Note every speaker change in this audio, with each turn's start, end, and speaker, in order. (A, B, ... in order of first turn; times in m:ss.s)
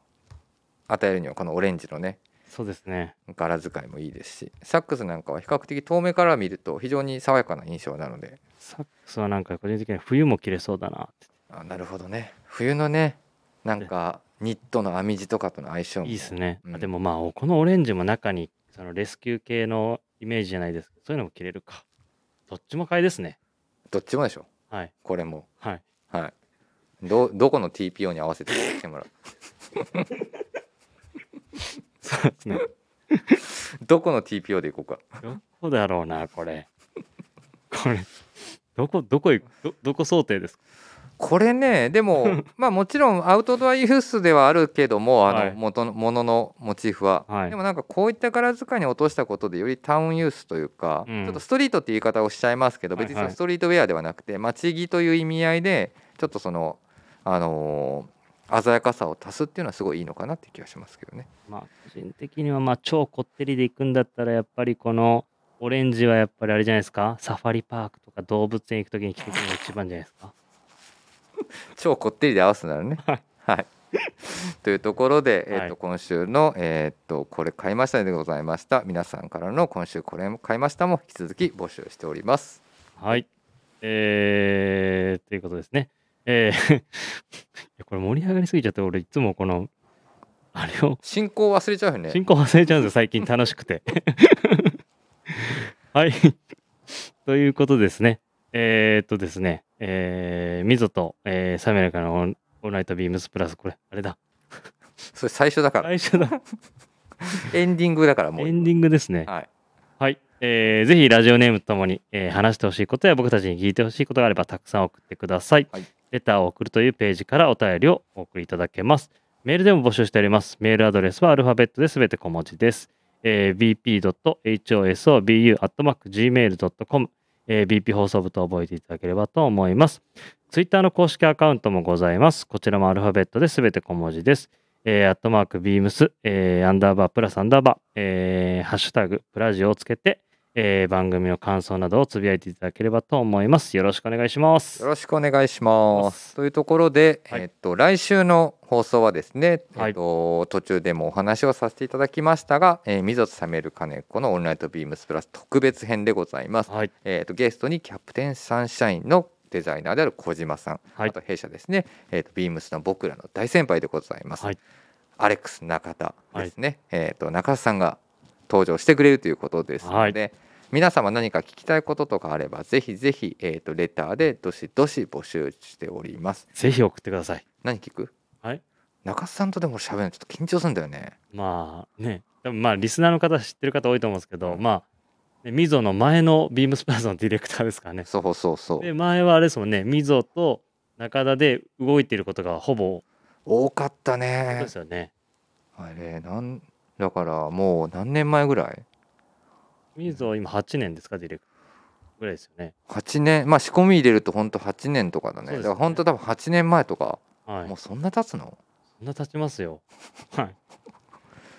0:00.9-0:02.2 A
0:02.5-0:03.2 B
0:03.3-0:08.4 A
0:08.6-0:11.3 B
0:11.5-0:16.9 A
0:16.0-0:21.8 B
0:22.5-0:23.4 B
0:23.9-0:24.5 A
0:25.0-0:25.5 A
0:27.0-0:29.1 A
0:29.8-0:30.1 A
0:32.0-0:33.4 B
0:33.8-0:35.2 A
0:35.2-0:36.7 B
0:37.7-0:40.6 B
0:41.2-1:01.3 A
0:42.2-0:42.4 B
0:45.3-0:45.6 B
0:47.3-0:47.6 B
0:51.1-0:51.4 B
0:53.0-0:53.4 B
1:01.5-1:10.3 B
1:11.7-1:13.7 A
1:14.2-1:23.2 A
1:15.5-1:15.8 B
1:23.0-1:23.3 B
1:23.8-1:29.7 B
1:30.5-1:31.0 B
1:31.0-1:32.2 A
1:32.1-1:36.4 B
1:36.9-1:44.2 B
1:45.2-1:46.4 A
1:45.8-1:46.4 B
1:47.2-1:48.7 A
1:48.4-1:49.3 B
1:50.0-2:24.9 B
2:24.8-2:44.5 A
2:25.9-2:26.3 B
2:45.2-2:56.5 A
2:49.8-2:50.2 B
2:56.6-2:57.4 B
2:57.6-2:58.1 A
2:59.0-3:01.2 A
3:01.3-3:04.8 B
3:05.4-3:08.1 B
3:08.1-3:08.9 A
3:08.8-3:13.0 B
3:13.5-3:14.7 A
3:14.5-3:15.1 B
3:15.8-3:18.8 A
3:20.0-3:21.4 B
3:22.2-3:22.7 B
3:22.9-3:28.6 A
3:25.5-3:26.0 B
3:27.5-3:27.7 B
3:29.0-3:30.6 B